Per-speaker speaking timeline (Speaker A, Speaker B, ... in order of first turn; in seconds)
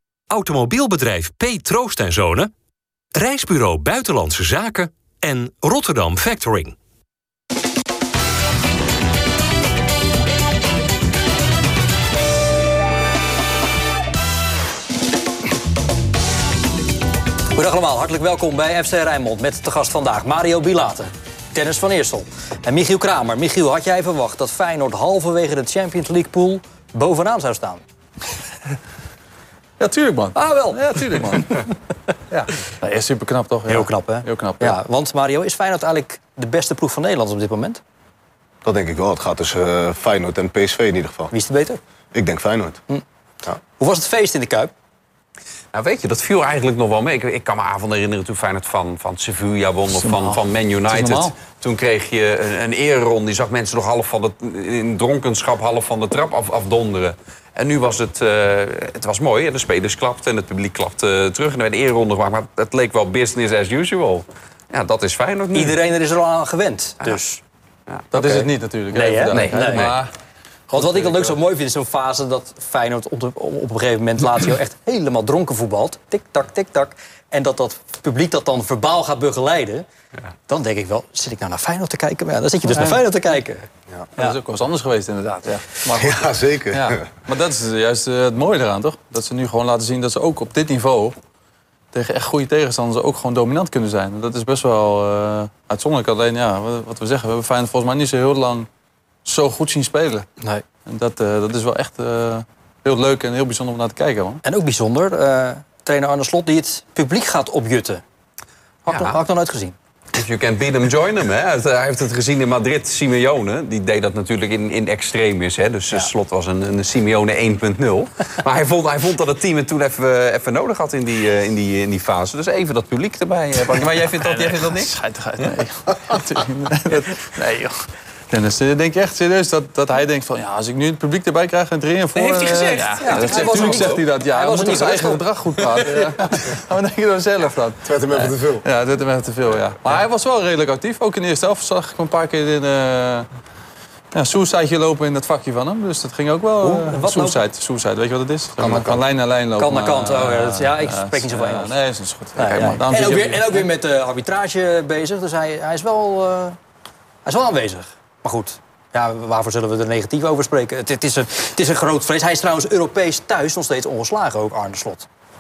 Speaker A: 0.3-2.5, 3.2-6.8
Speaker B: 17.6-27.8, 30.4-30.8, 33.7-37.8, 41.3-41.8, 42.9-44.7, 65.5-67.4, 68.1-69.9, 70.7-79.9, 80.5-84.4, 104.4-108.0, 108.8-109.8, 133.0-135.2, 146.6-147.4, 149.6-151.8, 152.4-156.6, 157.2-165.1
Speaker C: 29.8-31.7, 32.3-34.8, 49.9-51.3, 68.1-70.1, 70.7-71.3, 82.7-83.0, 84.2-91.2, 91.9-98.7, 99.2-100.3, 100.9-104.4, 124.2-143.3, 144.1-153.7
Speaker D: 38.6-41.3, 42.1-42.8, 85.9-87.1, 137.8-138.7, 148.6-149.0
Speaker E: 45.7-65.8, 69.3-70.0, 108.9-109.2, 110.1-125.0, 132.2-134.0